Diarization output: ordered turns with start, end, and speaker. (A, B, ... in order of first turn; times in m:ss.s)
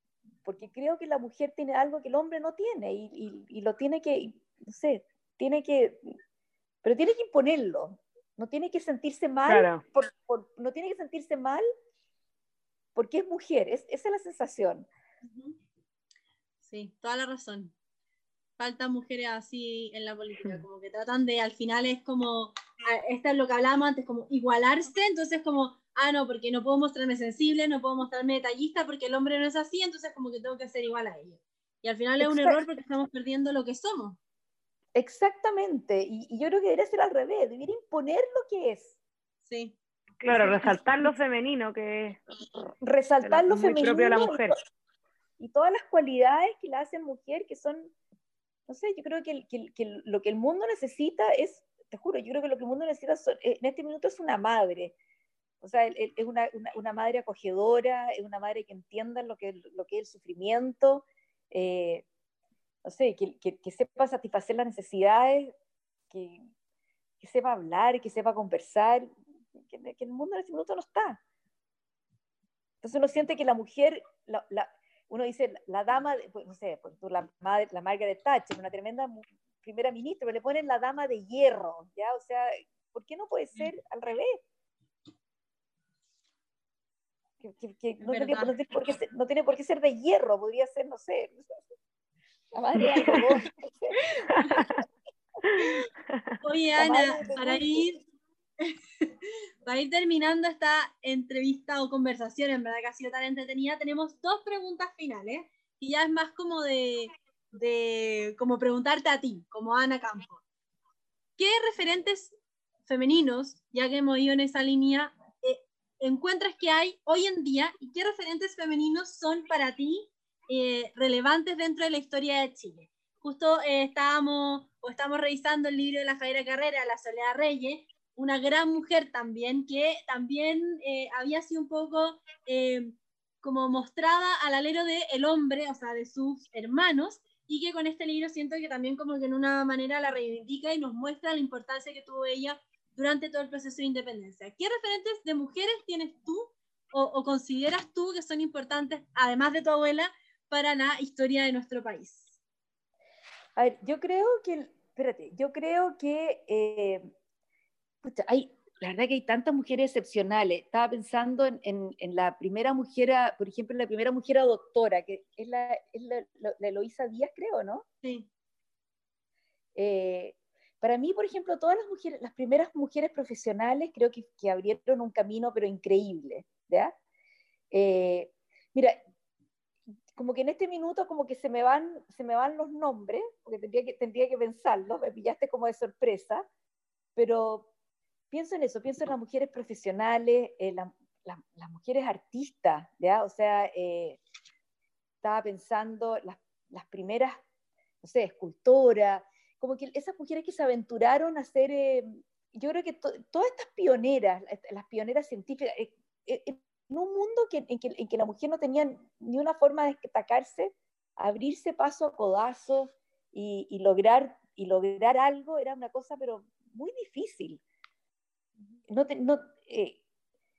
0:00.4-0:06.1 A
0:06.8-0:11.6 A
0:09.5-0:09.8 B
0:13.0-0:14.9 A
0:15.2-0:15.6 C
0:16.6-0:17.7 C
0:18.6-0:34.2 C
0:32.2-0:32.6 A
0:34.9-0:39.0 A
0:39.4-0:39.8 C
0:40.2-0:42.2 B
0:40.3-0:40.8 C
0:42.8-0:44.5 A
0:43.2-0:44.5 B
0:45.4-0:47.9 A
0:48.7-0:54.9 A
0:55.6-1:02.0 A
1:02.8-1:05.5 A
1:06.1-1:06.4 A
1:07.2-1:11.2 A
1:12.8-1:24.4 A
1:27.4-1:31.7 A
1:28.0-1:28.5 C
1:32.5-1:34.6 A
1:34.4-1:34.7 B
1:35.4-1:36.2 B
1:35.6-1:35.8 C
1:36.4-1:38.0 C
1:36.8-1:37.9 A
1:38.6-1:39.1 C
1:39.6-1:50.4 C
1:51.4-2:32.4 C
2:33.6-2:37.1 A
2:38.0-2:47.8 A
2:49.8-2:56.9 A
2:57.7-2:59.0 A
3:00.1-3:06.4 A
3:07.2-3:07.7 A
3:08.3-3:14.2 A
3:15.2-3:17.4 A
3:18.0-3:37.6 A
3:38.9-3:40.0 A